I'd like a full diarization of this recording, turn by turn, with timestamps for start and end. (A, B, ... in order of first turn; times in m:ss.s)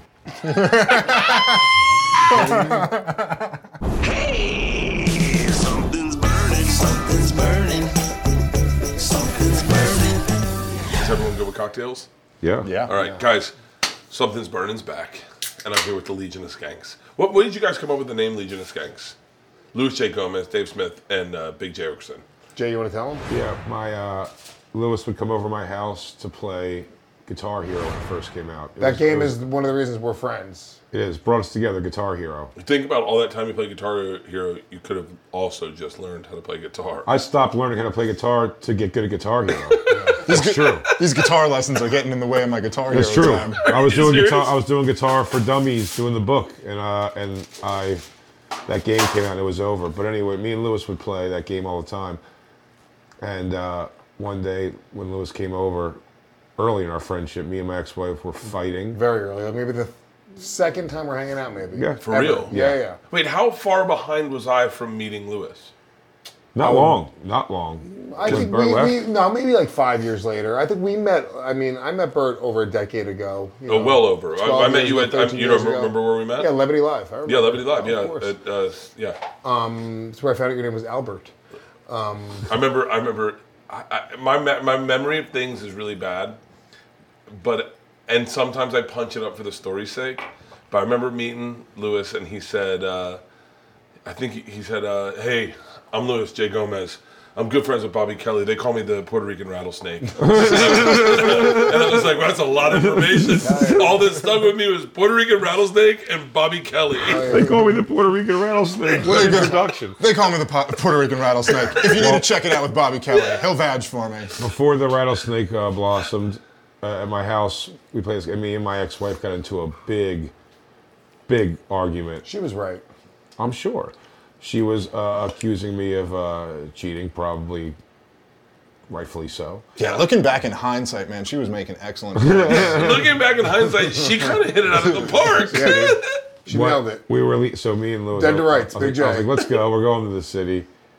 0:00.4-0:01.4 A
0:02.3-0:02.9 B
0:02.3-0:03.4 A
0:05.6-0:07.9 C
0:09.1-0:10.2 C
0:10.9-0:12.1 D
0:12.4-0:12.7 E
0:12.6-0:12.9 A
0:12.9-0:13.6 D
0:12.9-0:13.2 B
0:14.1-0:19.2 D
0:19.7-0:22.2 D
0:22.5-0:23.2 B
0:23.3-0:29.4 E
0:28.8-0:30.8 B
0:30.9-0:32.5 E
0:32.6-0:37.1 D
0:37.0-0:40.9 E
0:39.7-0:40.9 D
0:39.9-0:40.3 B
0:40.2-0:43.7 A
0:42.9-0:48.0 E
0:43.6-0:44.6 D
0:48.7-0:52.2 E
0:53.2-0:56.0 E
0:56.6-0:59.0 E
0:58.9-1:03.0 B
1:01.7-1:02.8 E
1:02.0-1:02.6 D
1:03.1-1:05.7 D
1:06.5-1:09.0 E
1:06.6-1:07.0 B
1:07.9-1:18.3 B
1:13.6-1:16.5 D
1:17.2-1:19.2 D
1:19.4-1:21.3 B
1:21.9-1:22.5 B
1:22.4-1:26.4 D
1:27.3-1:33.2 D
1:34.0-1:47.4 D
1:40.2-1:41.9 E
1:42.7-1:43.9 E
1:43.4-1:44.2 B
1:47.0-1:47.8 B
1:47.1-1:50.0 E
1:49.0-1:54.4 A
1:49.0-1:49.7 B
1:51.7-1:52.4 E
1:54.4-2:00.3 E
2:01.3-2:02.2 E
2:02.2-2:02.8 B
2:03.4-2:07.8 E
2:08.9-2:09.6 E
2:09.8-2:13.0 A
2:12.2-2:13.0 E
2:12.5-2:16.2 D
2:15.4-2:17.0 B
2:16.5-2:20.7 E
2:18.1-2:19.4 B